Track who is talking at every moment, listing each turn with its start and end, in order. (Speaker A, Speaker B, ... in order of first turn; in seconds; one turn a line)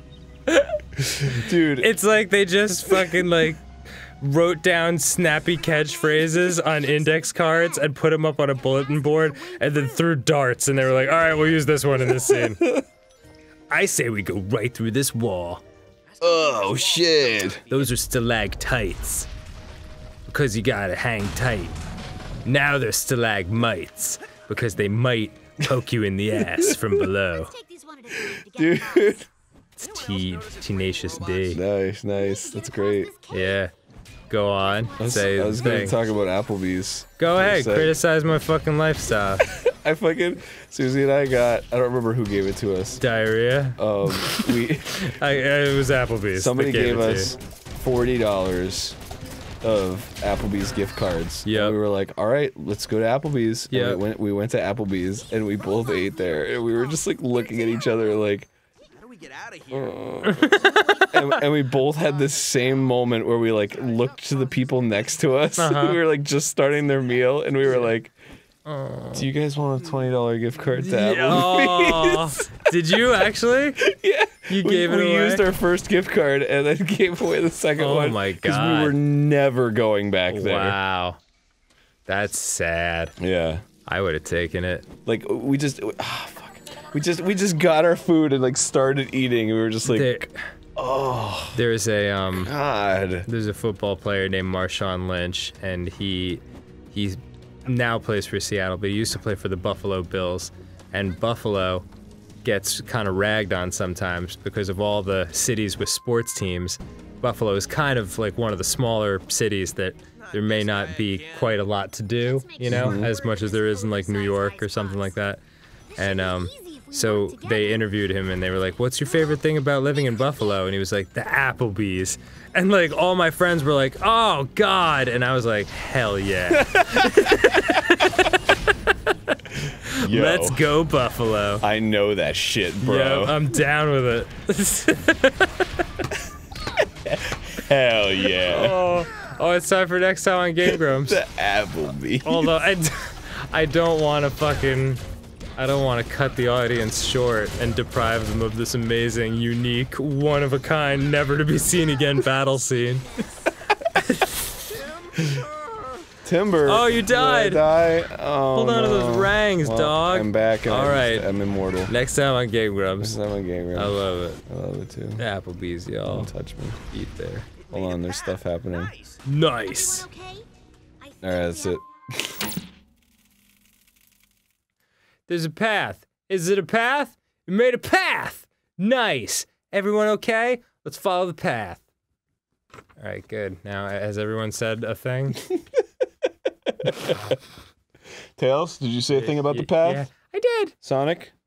Speaker A: 0.5-3.6
Speaker B: 1.2-1.9
Speaker A: 4.2-12.6
Speaker C: 5.8-7.6
Speaker C: 8.7-10.1
Speaker C: 11.0-11.6
Speaker B: 12.1-12.8
Speaker A: 13.7-15.6
Speaker D: 16.2-17.9
Speaker B: 16.2-17.6
Speaker A: 17.6-19.3
Speaker A: 20.3-21.8
Speaker A: 22.4-27.5
Speaker B: 26.5-26.9
Speaker C: 27.3-29.3
Speaker B: 28.2-29.2
Speaker A: 29.8-31.6
Speaker C: 30.9-31.6
Speaker B: 31.5-33.1
Speaker C: 32.1-33.7
Speaker A: 33.3-33.7
Speaker A: 34.3-36.0
Speaker C: 34.8-36.0
Speaker B: 35.0-38.0
Speaker A: 37.2-39.5
Speaker B: 39.5-43.0
Speaker A: 43.0-47.3
Speaker B: 43.8-45.1
Speaker B: 46.4-49.0
Speaker B: 49.6-58.5
Speaker A: 51.5-51.8
Speaker A: 53.7-54.0
Speaker C: 55.7-58.0
Speaker D: 59.0-61.2
Speaker B: 59.7-68.1
Speaker A: 60.2-61.4
Speaker A: 65.6-66.0
Speaker A: 68.7-69.3
Speaker B: 69.1-72.6
Speaker A: 70.8-73.8
Speaker B: 73.8-80.8
Speaker A: 74.5-75.5
Speaker A: 77.8-79.0
Speaker A: 80.3-81.2
Speaker A: 82.1-83.2
Speaker B: 83.2-83.6
Speaker A: 83.9-84.9
Speaker B: 85.1-91.6
Speaker A: 89.9-90.4
Speaker A: 91.5-92.5
Speaker B: 92.3-93.3
Speaker A: 93.3-101.9
Speaker A: 102.4-115.4
Speaker D: 110.3-111.6
Speaker C: 112.3-115.2
Speaker B: 112.7-113.1
Speaker C: 115.9-117.9
Speaker A: 116.0-131.6
Speaker C: 119.0-120.6
Speaker B: 126.6-127.8
Speaker B: 129.9-130.7
Speaker B: 131.6-133.4
Speaker A: 132.8-135.7
Speaker B: 137.1-138.8
Speaker A: 138.4-141.2
Speaker B: 140.7-142.5
Speaker A: 142.2-145.0
Speaker A: 145.6-153.1
Speaker A: 153.9-154.8
Speaker B: 155.2-155.4
Speaker B: 156.2-161.9
Speaker A: 156.7-157.7
Speaker A: 158.5-161.3
Speaker A: 161.9-163.2
Speaker B: 163.0-165.2
Speaker A: 163.7-164.4
Speaker A: 165.2-166.3
Speaker B: 166.1-166.8
Speaker A: 166.9-167.5
Speaker D: 167.6-168.1
Speaker B: 167.7-168.9
Speaker A: 169.2-170.1
Speaker C: 169.6-170.5
Speaker C: 171.0-171.8
Speaker B: 171.2-172.5
Speaker A: 175.3-181.8
Speaker A: 183.0-185.4
Speaker B: 186.7-187.2
Speaker B: 188.4-190.1
Speaker A: 189.1-190.8
Speaker B: 190.8-191.3